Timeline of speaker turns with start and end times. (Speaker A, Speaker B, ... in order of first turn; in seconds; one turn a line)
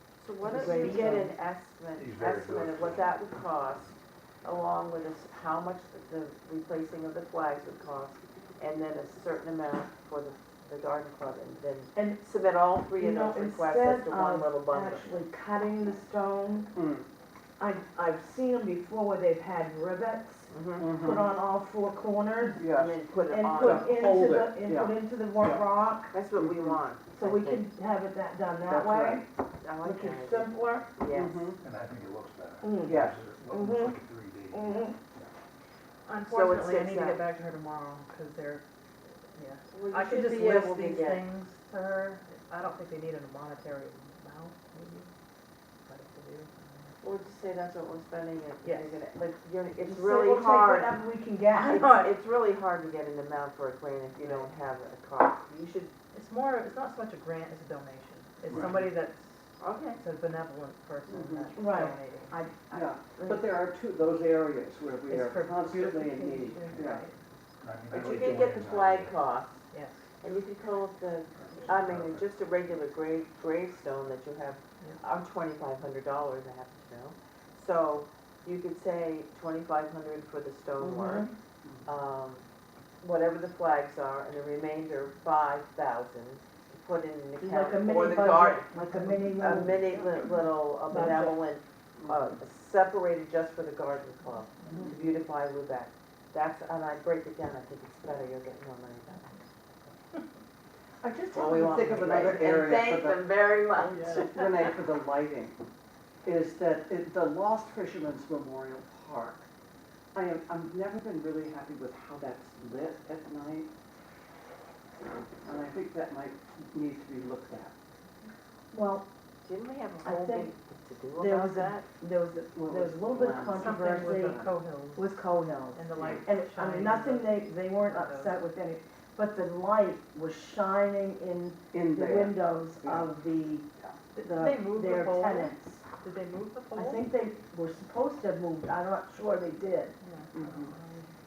Speaker A: 0.2-15.1
Speaker B: 0.4-1.2
Speaker C: 0.4-1.4
Speaker D: 2.0-3.1
Speaker C: 11.9-12.2
Speaker C: 13.0-16.7
Speaker E: 16.7-17.1
Speaker C: 17.6-22.6
Speaker A: 20.5-20.9
Speaker E: 20.8-21.3
Speaker E: 22.6-23.0
Speaker A: 22.7-23.9
Speaker C: 23.3-26.1
Speaker E: 23.5-25.6
Speaker A: 26.1-27.7
Speaker E: 26.3-26.8
Speaker C: 27.1-29.2
Speaker E: 28.7-29.3
Speaker A: 29.6-31.5
Speaker C: 29.8-30.9
Speaker E: 31.1-31.6
Speaker D: 31.6-35.2
Speaker C: 32.6-35.0
Speaker E: 32.8-33.2
Speaker B: 36.0-38.6
Speaker A: 36.2-37.2
Speaker B: 39.3-45.1
Speaker A: 39.7-41.2
Speaker B: 45.9-46.9
Speaker A: 47.0-51.0
Speaker B: 48.6-49.0
Speaker C: 49.9-52.1
Speaker A: 51.6-55.9
Speaker B: 56.1-62.4
Speaker D: 58.5-58.9
Speaker A: 59.6-60.0
Speaker E: 61.1-61.5
Speaker C: 61.5-63.5
Speaker E: 62.7-67.0
Speaker B: 65.1-67.2
Speaker D: 67.6-69.1
Speaker A: 67.9-69.7
Speaker B: 69.7-70.0
Speaker A: 70.2-81.3
Speaker D: 71.4-72.2
Speaker C: 80.8-81.3
Speaker A: 81.9-82.5
Speaker A: 83.0-88.7
Speaker C: 87.4-89.9
Speaker B: 89.0-89.4
Speaker A: 89.4-99.5
Speaker C: 90.9-91.4
Speaker C: 94.7-94.9
Speaker E: 101.0-103.3
Speaker A: 101.3-104.7
Speaker B: 103.8-104.3
Speaker E: 104.3-105.6
Speaker E: 106.2-109.5
Speaker E: 110.1-113.7
Speaker E: 115.4-117.7
Speaker C: 118.7-119.1
Speaker A: 119.4-121.9
Speaker C: 120.0-120.5
Speaker C: 121.2-133.6
Speaker E: 122.6-123.7
Speaker B: 123.5-125.1
Speaker B: 125.7-128.4
Speaker E: 126.0-126.2
Speaker E: 131.7-133.1
Speaker C: 134.2-135.8
Speaker B: 134.2-137.0
Speaker C: 136.7-139.9
Speaker B: 140.0-141.1
Speaker E: 140.3-140.7